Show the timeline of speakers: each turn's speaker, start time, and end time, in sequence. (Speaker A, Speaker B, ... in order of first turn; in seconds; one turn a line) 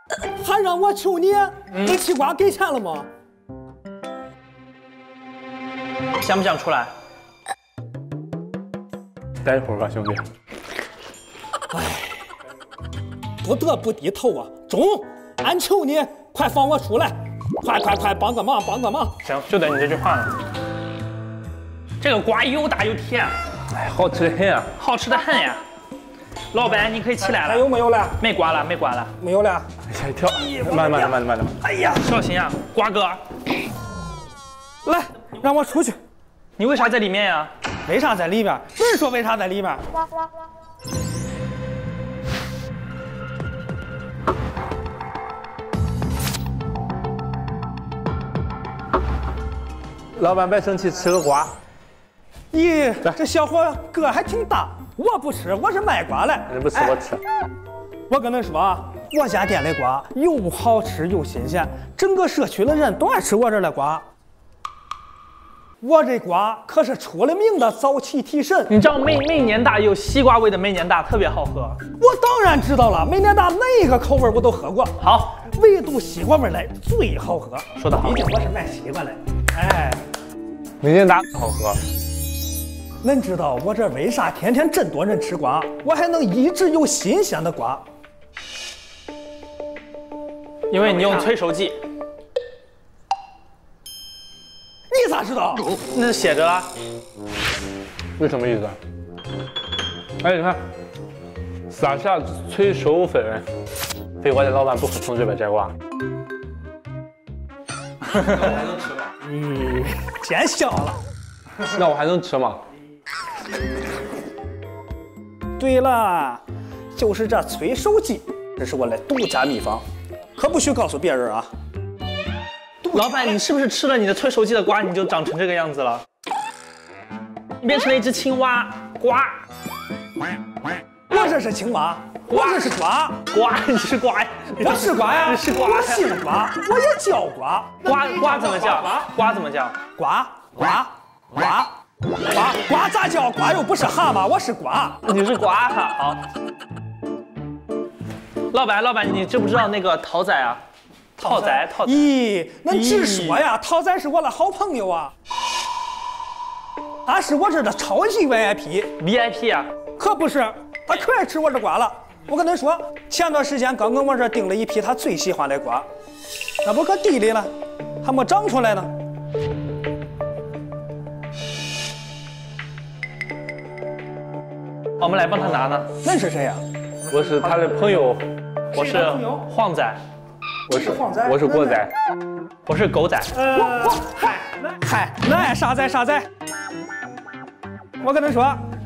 Speaker A: 0.4-3.1
Speaker B: 6.2-6.9
Speaker C: 9.4-10.2
Speaker A: 11.7-12.2
Speaker A: 13.4-19.1
Speaker B: 19.2-20.4
Speaker B: 22.0-23.4
Speaker C: 23.7-24.7
Speaker B: 24.8-25.6
Speaker B: 26.5-29.1
Speaker A: 27.2-28.2
Speaker A: 29.2-29.7
Speaker C: 29.9-31.5
Speaker A: 30.4-32.1
Speaker B: 31.9-33.2
Speaker A: 34.8-36.0
Speaker B: 36.6-37.5
Speaker A: 37.9-39.8
Speaker C: 50.1-51.5
Speaker A: 52.5-57.0
Speaker C: 56.5-57.2
Speaker A: 58.1-64.0
Speaker A: 65.8-68.7
Speaker B: 68.7-71.8
Speaker A: 72.0-80.0
Speaker B: 75.0-75.4
Speaker B: 77.8-78.3
Speaker C: 80.8-81.8
Speaker A: 83.0-87.8
Speaker B: 90.7-91.8
Speaker A: 90.8-91.3
Speaker A: 94.9-95.7
Speaker B: 95.8-96.7
Speaker C: 98.2-98.8
Speaker C: 100.2-100.6
Speaker C: 101.7-103.4
Speaker C: 104.2-105.7
Speaker C: 109.4-109.8
Speaker A: 110.0-111.0
Speaker C: 111.7-112.6
Speaker A: 115.6-116.4
Speaker A: 116.9-119.8
Speaker A: 120.3-121.5
Speaker A: 122.8-123.4
Speaker B: 122.9-126.0
Speaker B: 127.6-129.4
Speaker A: 131.1-133.2
Speaker B: 132.3-132.7
Speaker B: 133.3-136.2
Speaker A: 134.6-139.1
Speaker B: 137.8-139.8
Speaker A: 139.9-141.7
Speaker A: 142.2-145.0
Speaker B: 145.0-146.2
Speaker B: 148.5-150.6
Speaker B: 151.2-152.1
Speaker A: 151.2-155.1
Speaker B: 152.7-153.4
Speaker A: 157.1-158.9
Speaker B: 159.0-159.7
Speaker A: 160.0-165.9
Speaker A: 166.6-167.5
Speaker A: 168.0-168.9
Speaker B: 175.0-175.9
Speaker A: 176.0-176.6
Speaker C: 177.1-178.2
Speaker B: 178.7-180.0
Speaker A: 178.7-179.4
Speaker A: 180.7-181.9
Speaker C: 180.7-181.9
Speaker B: 182.7-183.3
Speaker A: 183.3-186.3
Speaker A: 188.0-188.7